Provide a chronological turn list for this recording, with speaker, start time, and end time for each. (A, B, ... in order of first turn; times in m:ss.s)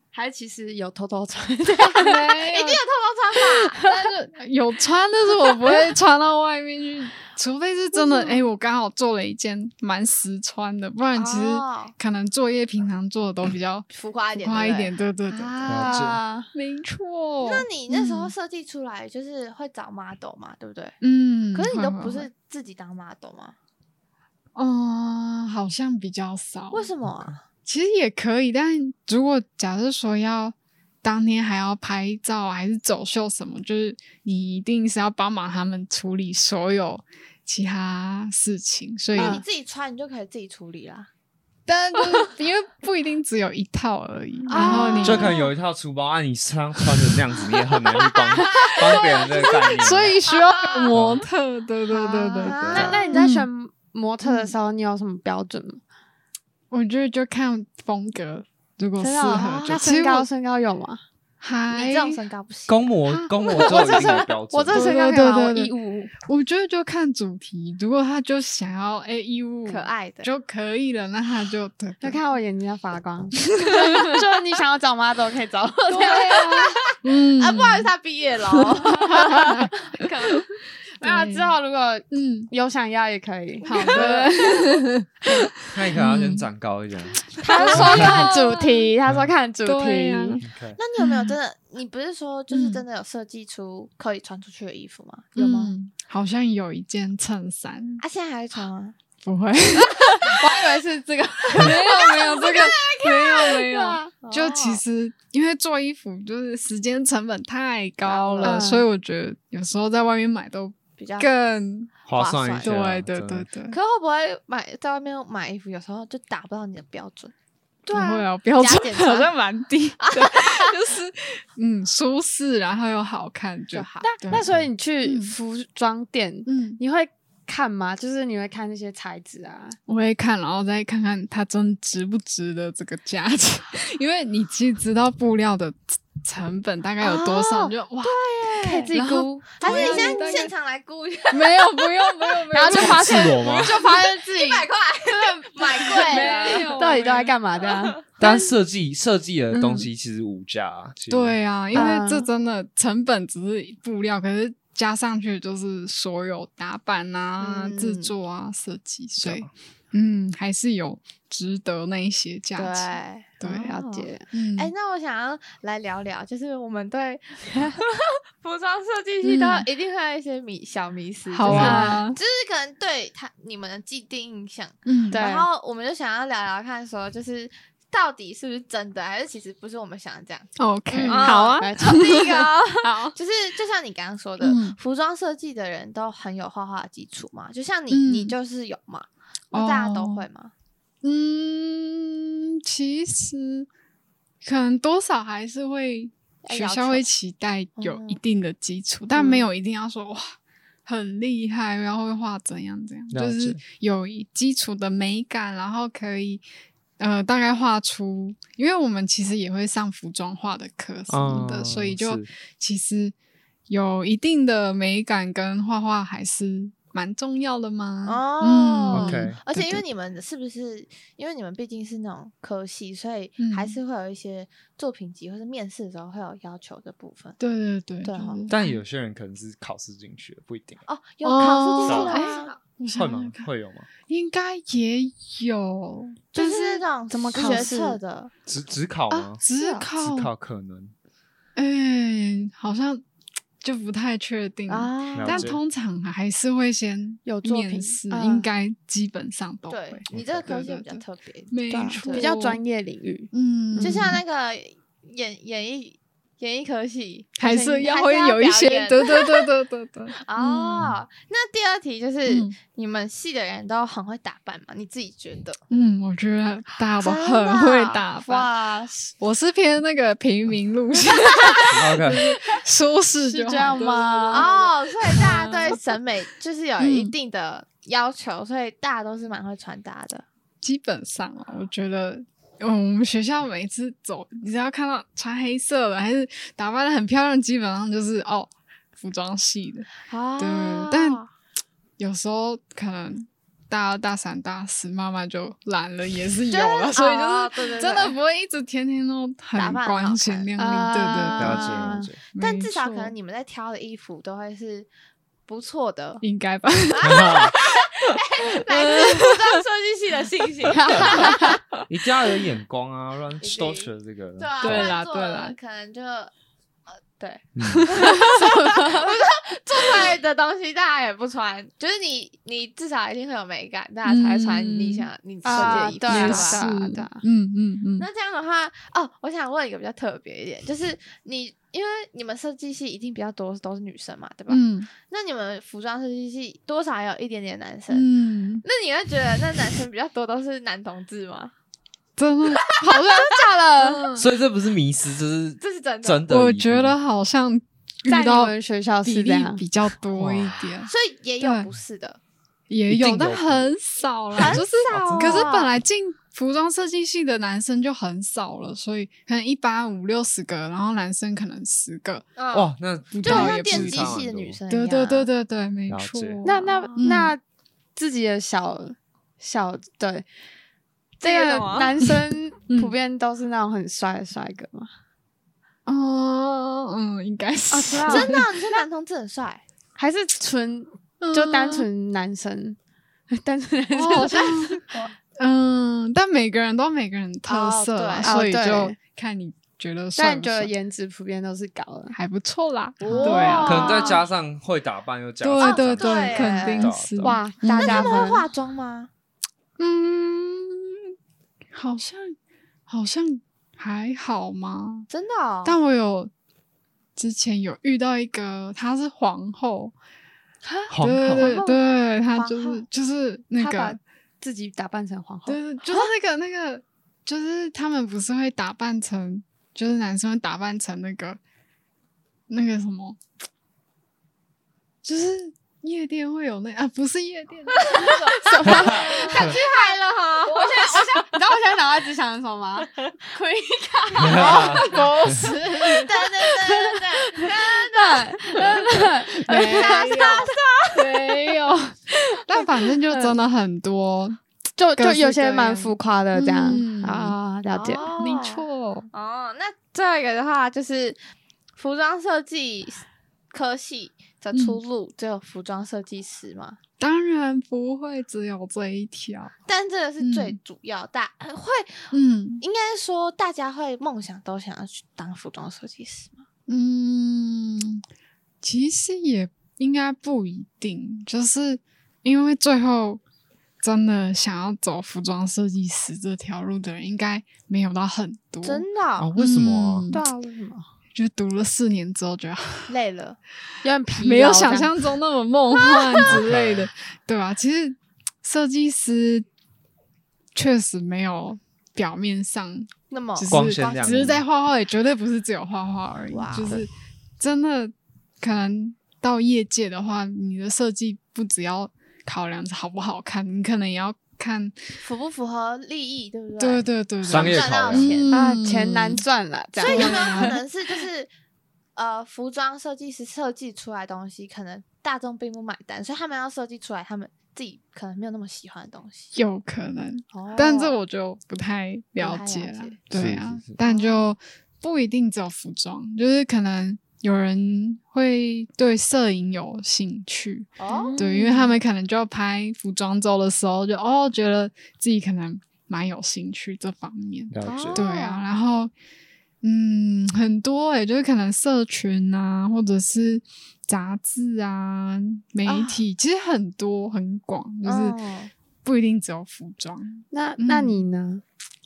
0:00.1-0:02.2 A
0:01.9-0:02.8 B
0:02.4-0:03.8 C
0:03.8-0:15.8 B
0:08.0-0:08.4 A
0:11.1-0:11.9 C
0:13.9-0:16.0 C
0:15.6-0:16.5 A
0:15.7-0:16.2 D
0:16.5-0:18.3 B
0:17.4-0:21.0 C
0:21.0-0:22.3 B
0:21.5-0:23.5 C
0:24.5-0:26.9 B
0:26.7-0:27.4 C
0:27.6-0:39.4 B
0:39.1-0:41.1 C
0:39.1-0:39.4 A
0:41.7-0:45.3 B
0:44.5-0:45.5 C
0:44.5-0:45.3 A
0:45.0-0:50.2 D
0:48.4-0:53.5 B
0:48.5-0:49.4 C
0:50.3-0:51.0 C
0:50.9-0:51.3 D
0:51.9-0:55.8 A
0:52.0-0:53.2 C
0:52.6-0:53.0 D
0:54.2-0:54.5 B
0:56.7-1:00.3 B
0:59.0-1:01.0 A
0:59.4-0:59.8 C
1:01.4-1:02.2 B
1:01.7-1:02.8 C
1:02.7-1:04.9 D
1:03.1-1:06.1 A
1:03.6-1:04.2 C
1:04.7-1:12.2 B
1:09.6-1:10.3 C
1:12.0-1:16.4 A
1:13.6-1:14.1 B
1:15.9-1:17.9 B
1:15.9-1:20.4 C
1:18.6-1:19.7 B
1:21.0-1:24.3 A
1:21.0-1:21.6 B
1:22.1-1:22.5 B
1:23.6-1:24.6 C
1:23.6-1:25.3 B
1:25.7-1:27.3 D
1:25.9-1:26.5 B
1:27.4-1:28.5 C
1:27.4-1:30.4 A
1:27.5-1:28.7 B
1:27.8-1:28.2 D
1:29.0-1:29.3 D
1:29.6-1:30.4 B
1:30.4-1:30.8 D
1:30.8-1:35.7 C
1:31.0-1:31.4 B
1:32.5-1:32.8 B
1:35.4-1:38.0 B
1:38.0-1:39.0 C
1:39.2-1:40.4 B
1:40.2-1:41.8 A
1:41.5-1:51.9 B
1:41.6-1:43.6 C
1:43.7-1:44.1 A
1:44.2-1:44.8 C
1:48.0-1:48.7 C
1:48.4-1:48.9 A
1:51.0-1:51.3 C
1:52.1-1:53.5 D
1:52.1-1:52.7 C
1:52.6-1:53.8 B
1:53.7-1:57.3 C
1:57.8-1:59.3 C
1:57.9-2:04.4 B
2:00.0-2:00.7 C
2:03.7-2:04.1 C
2:04.0-2:09.8 A
2:04.3-2:04.7 D
2:05.0-2:05.3 B
2:06.5-2:06.8 B
2:09.9-2:18.3 B
2:17.0-2:18.9 C
2:18.6-2:20.5 A
2:18.9-2:20.5 B
2:19.6-2:22.3 C
2:21.3-2:23.4 B
2:22.5-2:24.7 A
2:22.7-2:23.8 D
2:23.4-2:26.7 C
2:25.6-2:27.4 B
2:25.6-2:28.3 A
2:27.6-2:28.0 C
2:28.2-2:31.4 D
2:29.5-2:29.9 B
2:31.1-2:43.7 B
2:31.7-2:32.3 A
2:37.4-2:38.1 C
2:39.2-2:39.5 D
2:42.6-3:00.5 C
2:43.4-2:44.3 A
2:44.3-2:44.7 B
2:49.2-2:49.7 B
2:51.3-2:52.2 B
2:51.5-2:51.8 D
2:51.5-2:52.0 A
2:54.8-2:55.2 B
2:55.1-2:55.5 A
3:00.6-3:03.2 B
3:00.9-3:02.1 A
3:01.0-3:10.5 C
3:04.4-3:04.8 B
3:07.9-3:08.4 B
3:09.5-3:10.2 B
3:11.0-3:13.7 B
3:14.4-3:26.4 B
3:16.4-3:17.0 C
3:17.8-3:18.2 C
3:23.1-3:23.6 D
3:27.0-3:33.1 B
3:31.1-3:32.3 D
3:33.7-3:39.4 B
3:38.0-3:47.4 C
3:38.9-3:39.8 D
3:43.4-3:43.8 B
3:47.4-3:48.8 B
3:48.0-3:48.4 C
3:48.5-3:50.8 D
3:50.9-3:52.6 C
3:51.2-3:53.5 B
3:51.8-3:52.2 D
3:51.9-3:52.6 A
3:52.9-3:53.9 D
3:54.1-3:57.7 B
3:56.3-3:58.3 C
3:57.1-3:58.0 A
3:58.5-3:59.4 D
3:59.1-4:00.3 B
3:59.6-3:59.9 A
4:00.0-4:00.9 D
4:01.6-4:03.0 B
4:03.6-4:12.6 B
4:04.7-4:05.5 C
4:05.2-4:05.6 D
4:07.2-4:08.5 A
4:09.7-4:12.3 C
4:10.1-4:10.6 D
4:11.7-4:14.2 A
4:13.3-4:14.2 B
4:13.8-4:19.4 C
4:17.4-4:20.9 B
4:17.4-4:17.9 A
4:20.2-4:25.6 C
4:22.3-4:22.6 B
4:25.7-4:28.5 B
4:27.0-4:28.0 C
4:28.2-4:29.1 A
4:29.2-4:35.8 B
4:31.7-4:32.2 D
4:33.2-4:34.5 A
4:34.3-4:40.2 C
4:36.8-4:37.1 B
4:40.6-4:51.2 B
4:50.0-4:51.3 C
4:52.0-5:03.1 B
4:56.5-4:58.2 C
4:59.5-5:00.5 C
5:00.6-5:02.1 A
5:01.4-5:02.2 D
5:02.4-5:04.9 C
5:05.5-5:06.2 C
5:06.2-5:08.2 B
5:06.9-5:11.6 C
5:07.0-5:07.5 D
5:08.7-5:09.5 B
5:10.7-5:11.6 A
5:11.9-5:14.9 D
5:13.4-5:16.3 C
5:14.6-5:15.5 B
5:17.2-5:26.7 C
5:17.5-5:17.8 D
5:17.6-5:18.5 B
5:24.0-5:28.1 B
5:25.4-5:27.2 A
5:28.0-5:38.1 C
5:34.5-5:34.9 B
5:37.9-5:38.6 B
5:38.6-5:41.5 C
5:42.2-5:44.2 B
5:42.9-5:44.0 A
5:44.1-5:47.0 D
5:45.6-5:46.2 C
5:46.3-5:51.7 B
5:48.1-5:49.6 A
5:50.1-5:50.7 D
5:50.8-5:52.2 C
5:52.7-6:02.3 B
5:52.9-5:53.7 D
5:54.4-5:55.7 C
5:54.4-5:55.5 D
6:02.4-6:05.3 C
6:02.5-6:04.6 D
6:03.1-6:07.3 B
6:05.9-6:06.4 D
6:06.4-6:07.4 A
6:06.4-6:07.1 C
6:08.0-6:10.3 A
6:11.2-6:11.9 C
6:11.2-6:14.9 A
6:12.7-6:12.9 B
6:15.8-6:18.4 B
6:17.7-6:18.8 A
6:18.0-6:19.6 C
6:20.0-6:22.8 A
6:21.2-6:21.9 B
6:23.3-6:25.1 A
6:23.9-6:24.8 B
6:25.4-6:30.7 B
6:27.5-6:28.4 C
6:28.2-6:29.0 A
6:30.2-6:32.2 A
6:32.1-6:34.0 B
6:33.0-6:34.2 C
6:33.1-6:34.0 A
6:33.6-6:37.4 D
6:35.4-6:38.2 B
6:35.6-6:36.9 C
6:37.2-6:38.4 A
6:37.7-6:39.1 C
6:39.8-6:41.1 B
6:41.7-6:42.4 B
6:42.9-6:45.1 B
6:45.1-6:45.8 C
6:45.6-6:46.3 B
6:47.2-6:49.9 B
6:50.6-6:50.9 A
6:50.9-6:51.5 D
6:51.0-6:54.0 B
6:51.4-6:52.8 C
6:53.6-6:55.6 A
6:55.4-7:01.4 B
7:02.5-7:03.2 B
7:05.0-7:09.2 B
7:07.8-7:11.2 C
7:07.9-7:20.4 A
7:08.6-7:09.5 D
7:14.2-7:15.4 D
7:14.2-7:18.8 C
7:14.9-7:16.0 B
7:18.8-7:24.4 B
7:19.5-7:21.1 C
7:24.8-7:28.1 A
7:25.0-7:27.4 B
7:27.7-7:31.2 C
7:28.2-7:29.1 B
7:31.8-7:36.8 C
7:34.5-7:34.8 B
7:37.0-7:39.5 B
7:39.6-7:46.4 C
7:40.2-7:40.6 B
7:42.1-7:42.6 B
7:46.7-7:48.0 B
7:48.6-7:53.2 B
7:53.8-7:58.8 B
7:58.6-7:59.3 C
7:59.2-8:00.1 D
7:59.4-8:00.2 B
8:00.1-8:00.8 A
8:01.1-8:02.9 B
8:02.9-8:03.4 C
8:03.8-8:04.9 A
8:04.1-8:09.4 B
8:05.8-8:06.2 C
8:06.2-8:06.9 D
8:10.5-8:24.8 B
8:13.1-8:14.4 C
8:13.5-8:14.4 D
8:16.3-8:16.8 C
8:25.0-8:28.3 C
8:26.6-8:29.2 B
8:27.2-8:28.1 D
8:28.3-8:30.6 A
8:29.8-8:31.3 C
8:29.8-8:30.6 B
8:32.0-8:39.3 C
8:39.3-8:58.9 B
8:40.3-8:41.0 C
8:42.2-8:43.0 C
8:43.1-8:43.8 D
8:43.8-8:44.2 C
8:50.8-8:51.2 C
8:50.9-8:51.8 A
8:57.5-8:58.0 D
8:57.6-8:58.4 C
8:59.6-9:08.2 B
9:05.6-9:06.0 C
9:07.8-9:08.5 C
9:08.8-9:11.0 B
9:10.3-9:11.4 A